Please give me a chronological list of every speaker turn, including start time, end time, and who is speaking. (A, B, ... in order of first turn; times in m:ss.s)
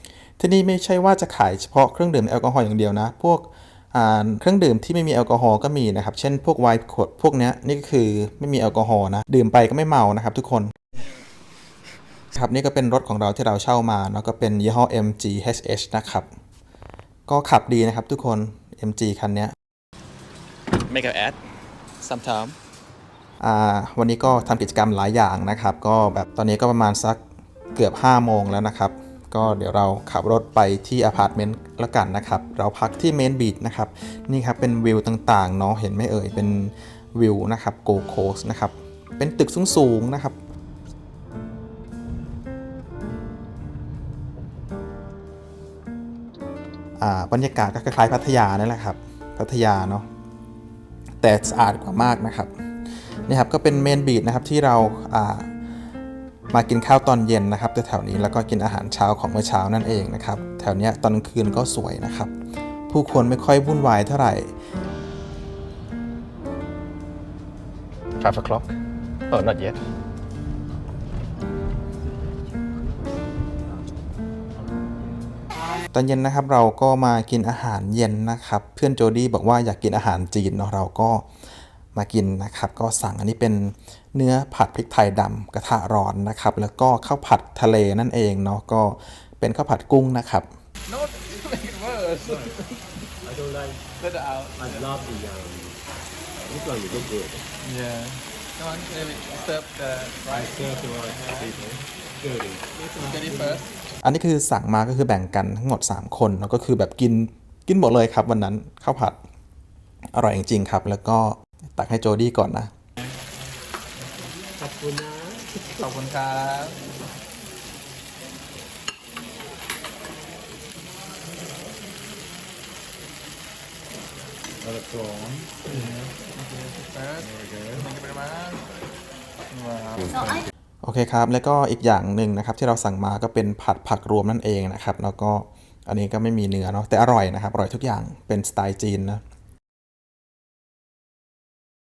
0:00.4-0:10.7 A
0:12.3-0:16.3 A
0:17.3-0:19.5 A
0:20.9-0:21.4 A
0:22.0-0:22.5 A
0:23.4-0:27.2 A
0:27.8-0:40.4 A
0:47.0-0:50.1 A
0:51.2-0:52.5 A
0:53.3-0:55.5 A
0:56.5-1:02.3 A
1:02.9-1:04.5 A
1:08.2-1:08.7 A
1:09.3-1:09.8 A
1:12.0-1:13.9 B
1:14.6-1:15.3 B
1:15.9-1:21.2 A
1:21.9-1:30.5 A
1:30.9-1:32.8 C
1:33.2-1:33.9 B
1:34.0-1:34.8 C
1:34.6-1:35.8 B
1:36.4-1:37.5 B
1:37.6-1:40.5 C
1:40.3-1:43.7 B
1:41.1-1:41.5 C
1:43.1-1:43.7 C
1:44.0-1:49.2 A
1:50.1-1:52.7 A
1:54.6-1:55.7 B
1:55.7-1:56.8 C
2:04.6-2:05.6 B
2:05.6-2:08.6 C
2:07.4-2:07.8 B
2:09.5-2:10.2 C
2:10.8-2:19.2 A